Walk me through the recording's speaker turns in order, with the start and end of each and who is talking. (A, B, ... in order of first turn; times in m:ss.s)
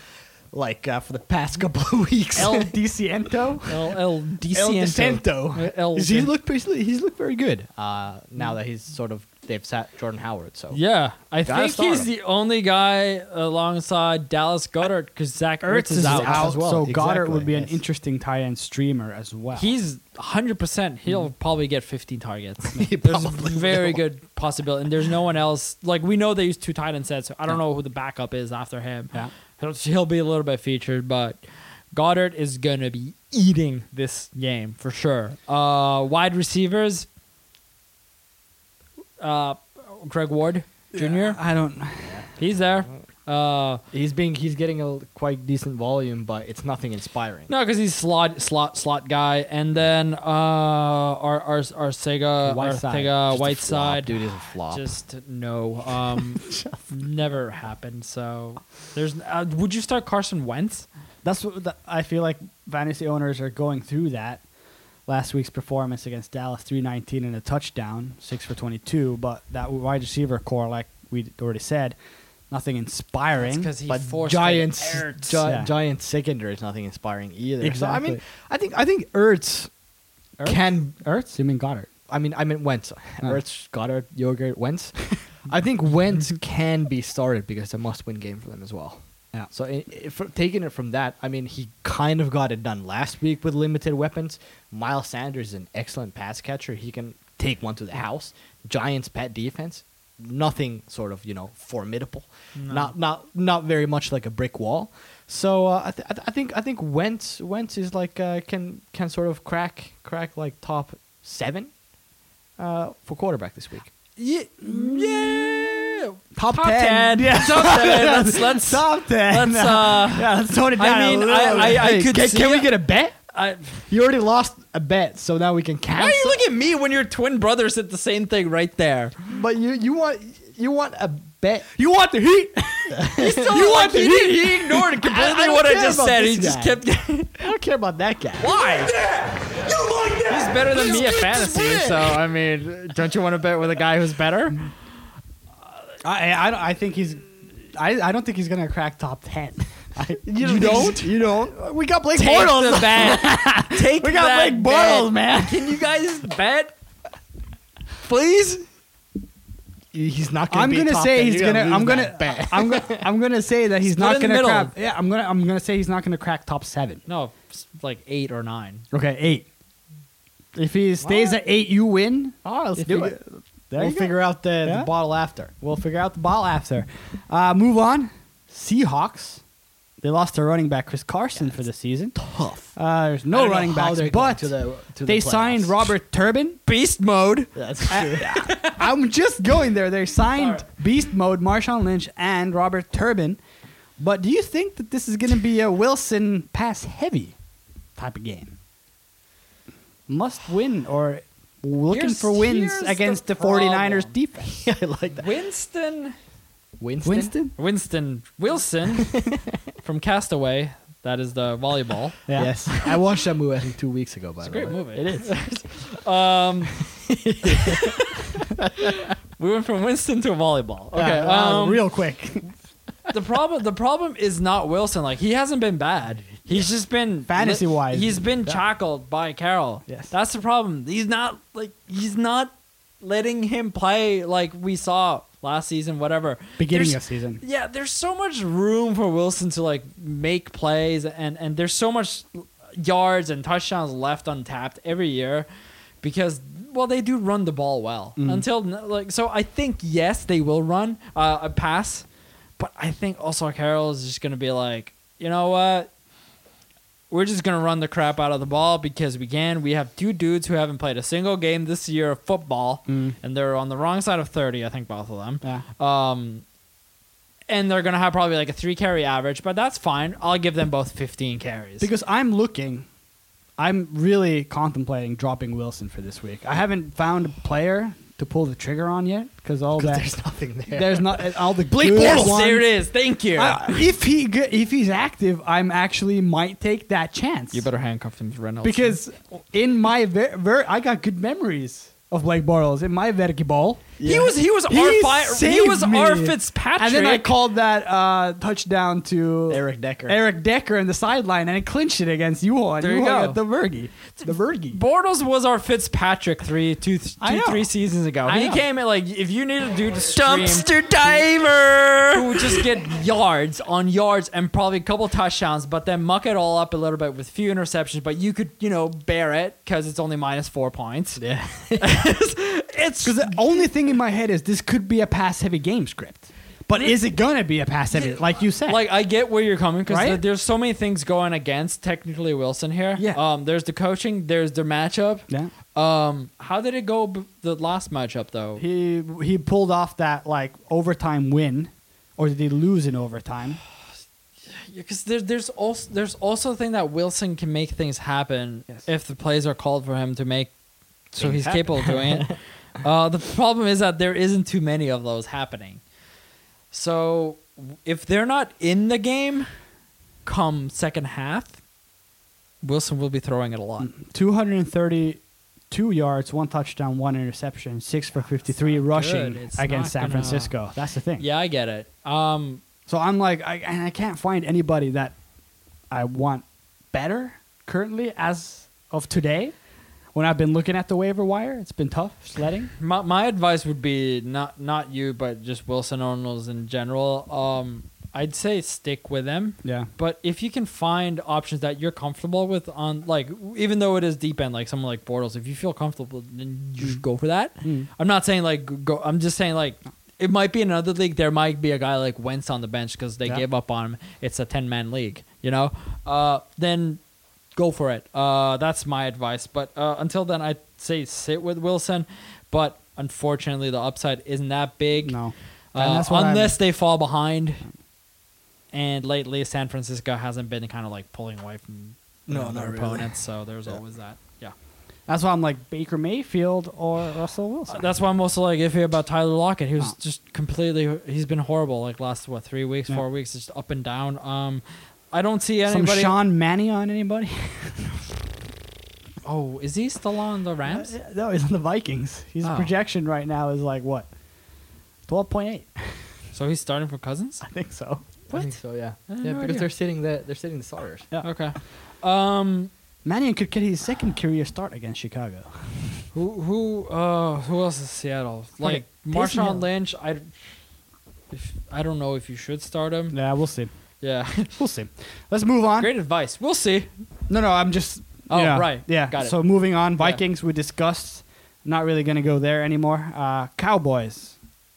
0:00.5-0:02.7 A
0:02.4-0:03.7 B
0:03.7-0:06.3 C
0:04.5-0:10.8 A
0:10.7-0:16.6 C
0:11.4-0:12.1 A
0:15.6-0:19.7 B
0:16.0-0:17.8 A
0:19.6-0:37.1 C
0:22.8-0:24.0 A
0:39.2-0:41.4 C
0:40.9-0:42.2 B
0:42.4-0:43.8 C
0:43.9-0:47.5 A
0:47.5-1:00.9 C
0:52.4-0:53.1 B
0:53.3-0:54.8 A
0:56.4-0:56.8 B
1:01.2-1:04.4 B
1:05.1-1:12.0 B
1:12.5-1:13.7 B
1:13.4-1:15.4 C
1:13.9-1:19.7 A
1:15.4-1:15.7 B
1:17.6-1:18.2 B
1:20.4-1:21.9 B
1:20.4-1:21.0 A
1:22.1-1:51.7 A
1:42.6-1:42.9 C
1:52.6-1:53.9 A
1:54.2-2:03.8 C
1:56.4-2:02.0 B
2:01.5-2:03.1 A
2:03.9-2:06.4 A
2:06.0-2:09.2 C
2:09.3-2:11.8 A
2:11.8-2:13.0 B
2:12.9-2:16.8 A
2:13.2-2:17.5 C
2:17.4-2:22.2 A
2:18.4-2:19.0 C
2:20.3-2:24.7 C
2:26.0-2:35.7 B
2:30.4-2:31.6 A
2:30.5-2:31.0 C
2:32.2-2:36.7 C
2:38.0-2:38.7 C
2:39.9-2:43.0 A
2:40.5-2:47.0 B
2:43.9-2:44.7 C
2:47.1-2:48.8 C
2:48.9-2:49.5 B
2:50.6-2:54.9 B
2:51.0-2:51.4 A
2:52.4-2:53.2 A
2:53.8-2:55.5 A
2:55.5-2:59.4 B
3:00.0-3:06.6 B
3:02.2-3:02.7 A
3:03.3-3:05.9 A
3:06.7-3:08.9 C
3:07.6-3:08.4 A
3:07.9-3:13.4 B
3:10.4-3:10.6 C
3:14.0-3:17.4 B
3:18.0-3:18.6 B
3:20.1-3:24.6 B
3:21.9-3:24.1 C
3:24.6-3:25.3 A
3:25.2-3:26.1 C
3:26.8-3:27.4 A
3:27.0-3:27.5 B
3:27.6-3:32.2 C
3:32.3-3:32.7 B
3:32.4-3:35.3 A
3:34.4-3:36.9 C
3:36.9-3:38.9 A
3:37.5-3:41.9 C
3:40.9-3:42.5 B
3:43.1-4:05.5 C
3:47.3-3:48.6 B
3:49.9-3:50.1 B
3:56.6-3:57.4 B
4:06.0-4:12.1 C
4:08.2-4:08.4 B
4:12.6-4:15.9 C
4:17.1-4:26.4 C
4:22.9-4:23.2 B
4:27.5-4:31.9 C
4:31.8-4:32.9 B
4:33.6-4:40.1 B
4:39.8-4:42.4 A
4:40.7-4:42.7 B
4:41.8-4:43.8 C
4:43.4-4:47.7 B
4:47.5-4:49.0 C
4:48.6-4:53.9 B
4:54.0-4:54.4 A
4:54.0-4:57.4 C
4:54.7-5:04.8 B
4:59.5-5:00.2 A
5:02.8-5:03.4 C
5:04.7-5:21.2 C
5:07.2-5:07.7 B
5:08.2-5:08.6 B
5:10.4-5:11.2 A
5:21.2-5:22.0 A
5:21.8-5:23.6 C
5:23.0-5:28.9 B
5:27.9-5:38.6 C
5:29.9-5:30.2 B
5:38.6-5:43.6 B
5:44.5-5:50.5 C
5:51.2-5:55.8 C
5:51.2-5:52.3 A
5:56.7-5:59.5 C
6:00.2-6:01.6 C
6:02.6-6:03.9 C
6:03.8-6:11.3 B
6:08.6-6:10.6 C
6:11.2-6:12.6 C
6:12.9-6:15.2 B
6:15.9-6:19.5 B
6:20.1-6:22.7 B
6:22.8-6:47.0 C
6:29.6-6:29.9 B
6:37.6-6:37.9 B
6:47.6-6:55.2 C
6:55.0-6:56.6 B
6:55.7-6:57.6 C
6:58.7-7:04.5 C
7:02.3-7:03.1 A
7:05.1-7:07.9 B
7:07.7-7:16.2 C
7:15.7-7:18.0 B
7:19.2-7:20.9 C
7:20.7-7:24.1 B
7:22.4-7:22.7 C
7:25.1-7:26.0 B
7:26.3-7:27.4 C
7:27.4-7:28.0 B
7:28.3-7:28.6 C
7:28.3-7:31.1 A
7:29.1-7:29.7 C
7:31.2-7:32.7 C
7:33.0-7:36.0 B
7:36.1-7:40.4 C
7:38.6-7:39.7 B
7:41.3-7:43.2 C
7:43.1-7:43.7 B
7:44.0-7:44.6 C
7:44.5-7:45.9 B
7:45.8-7:46.9 C
7:47.3-7:54.4 B
7:48.3-7:50.2 C